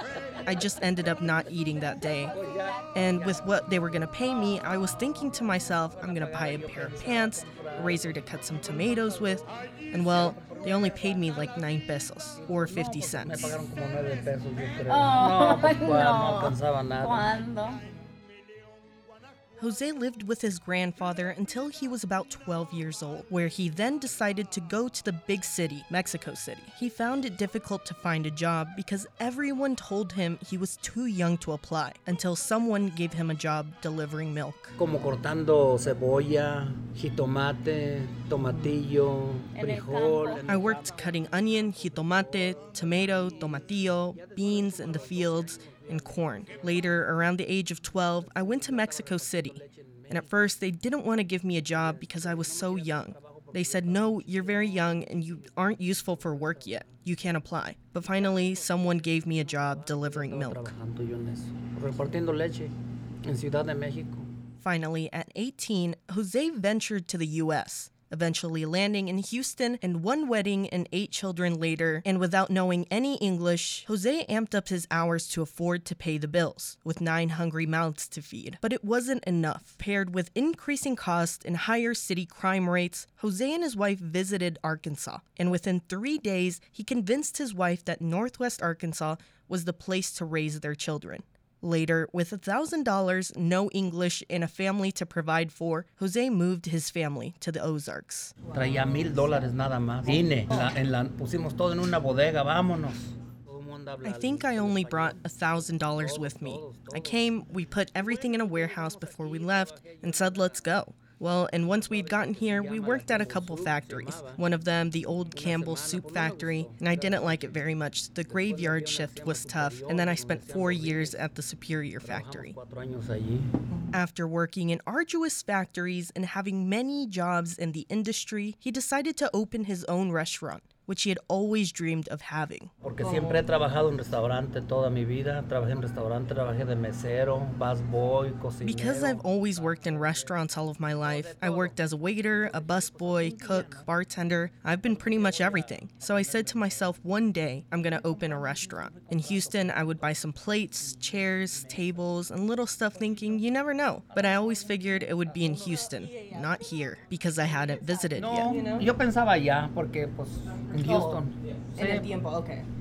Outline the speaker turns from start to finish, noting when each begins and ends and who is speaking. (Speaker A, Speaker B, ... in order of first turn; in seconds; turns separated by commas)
Speaker A: 0.4-2.3, Speaker B: 2.3-3.6, Speaker A: 2.9-13.6, Speaker B: 5.9-8.2, Speaker B: 10.0-11.2, Speaker B: 12.4-17.2, Speaker C: 14.9-17.8, Speaker A: 19.6-34.7, Speaker B: 34.8-47.1, Speaker C: 39.5-40.6, Speaker A: 40.5-60.7, Speaker B: 48.0-50.4, Speaker B: 51.7-56.8, Speaker B: 58.0-62.7, Speaker B: 63.2-64.2, Speaker A: 64.6-98.3, Speaker B: 98.5-107.3, Speaker A: 104.0-122.5, Speaker B: 107.9-110.7, Speaker B: 111.6-114.4, Speaker B: 115.3-117.6, Speaker B: 118.3-121.2, Speaker B: 122.0-123.6, Speaker A: 123.9-133.1, Speaker B: 132.8-140.3, Speaker A: 138.6-158.9, Speaker B: 141.0-143.9, Speaker B: 144.9-146.9, Speaker B: 148.7-150.1, Speaker B: 150.9-151.8, Speaker B: 154.1-154.4, Speaker B: 158.1-162.1, Speaker A: 160.8-161.1, Speaker A: 161.8-162.6